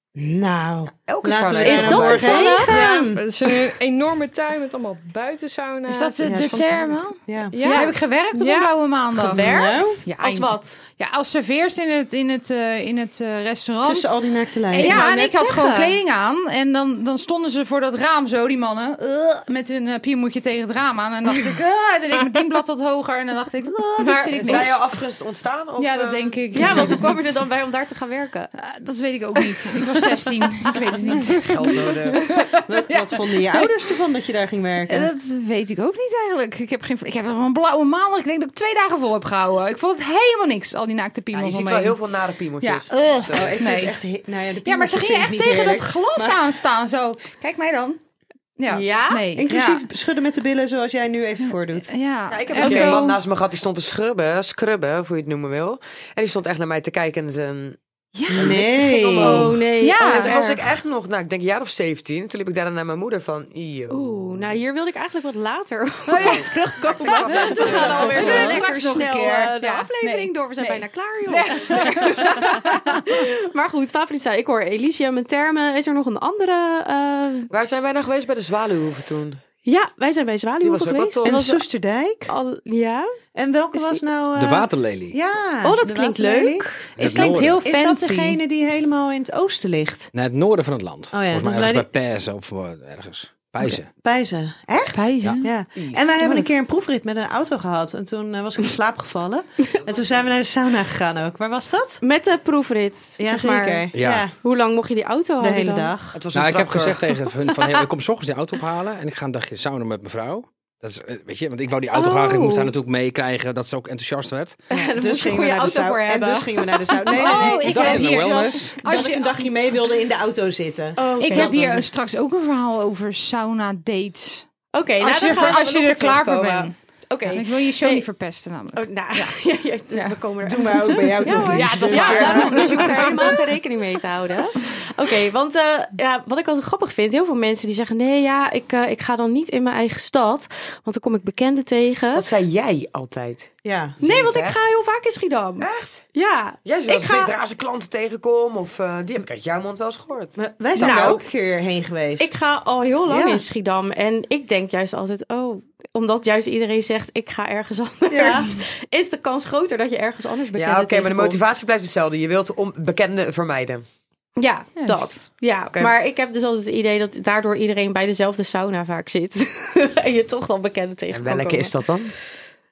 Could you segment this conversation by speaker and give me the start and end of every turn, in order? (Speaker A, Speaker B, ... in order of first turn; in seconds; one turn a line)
Speaker A: 0.2-3.3
Speaker B: 1.1-2.6
Speaker C: 1.6-2.7
Speaker D: 2.7-7.0
Speaker E: 5.9-7.2
Speaker A: 6.2-7.5
Speaker D: 7.5-8.7
Speaker C: 7.6-7.9
Speaker E: 7.7-9.5
Speaker C: 9.2-10.8
Speaker A: 9.3-10.0
Speaker E: 10.1-14.1
Speaker A: 13.8-15.0
Speaker E: 14.7-24.8
Speaker C: 14.8-16.0
Speaker C: 24.0-24.8
Speaker B: 24.4-27.1
Speaker E: 25.8-27.3
Speaker C: 26.5-28.5
Speaker E: 28.6-33.7
Speaker B: 31.2-32.2
Speaker A: 32.7-35.1
Speaker E: 34.9-42.0
Speaker B: 41.3-43.5
Speaker E: 42.6-44.0
Speaker A: 43.3-46.4
Speaker E: 44.6-48.0
Speaker E: 48.6-49.8
Speaker C: 48.7-49.2
Speaker A: 49.4-51.9
Speaker E: 51.9-53.2
Speaker B: 52.3-57.8
Speaker C: 52.6-53.0
Speaker E: 58.2-58.5
Speaker A: 58.3-59.6
Speaker B: 58.3-64.1
Speaker C: 59.1-60.7
Speaker E: 59.8-60.3
Speaker C: 63.9-77.5
Speaker E: 66.1-66.5
Speaker B: 66.2-68.6
Speaker E: 67.1-72.6
Speaker A: 67.3-68.6
Speaker B: 77.5-79.4
Speaker C: 79.7-81.6
Speaker B: 80.6-81.4
Speaker A: 81.2-82.3
Speaker C: 82.3-83.1
Speaker A: 83.3-90.1
Speaker C: 83.7-84.0
Speaker F: 84.4-85.2
Speaker C: 85.6-87.2
Speaker F: 87.0-87.6
Speaker E: 87.1-88.4
Speaker F: 90.1-93.9
Speaker A: 91.1-91.9
Speaker A: 93.9-102.0
Speaker E: 94.9-96.5
Speaker C: 102.0-105.9
Speaker A: 103.2-104.3
Speaker F: 103.9-104.3
Speaker A: 105.4-106.2
Speaker B: 106.1-107.0
Speaker F: 106.3-114.6
Speaker C: 107.5-107.8
Speaker C: 111.9-112.7
Speaker C: 114.7-117.2
Speaker A: 114.8-121.9
Speaker E: 117.2-119.5
Speaker F: 117.4-118.8
Speaker C: 121.0-121.6
Speaker E: 121.2-124.5
Speaker C: 124.7-128.1
Speaker E: 125.0-126.8
Speaker E: 127.3-130.2
Speaker C: 128.8-142.3
Speaker A: 130.4-133.0
Speaker E: 131.3-133.4
Speaker B: 142.1-144.6
Speaker A: 143.6-144.0
Speaker C: 144.0-147.3
Speaker B: 145.6-146.1
Speaker B: 146.7-151.2
Speaker A: 150.4-152.3
Speaker C: 150.8-151.2
Speaker C: 152.2-161.6
Speaker A: 153.1-153.4
Speaker A: 158.1-158.5
Speaker B: 160.6-163.8
Speaker C: 164.4-171.8
Speaker E: 164.8-165.1
Speaker B: 171.1-172.2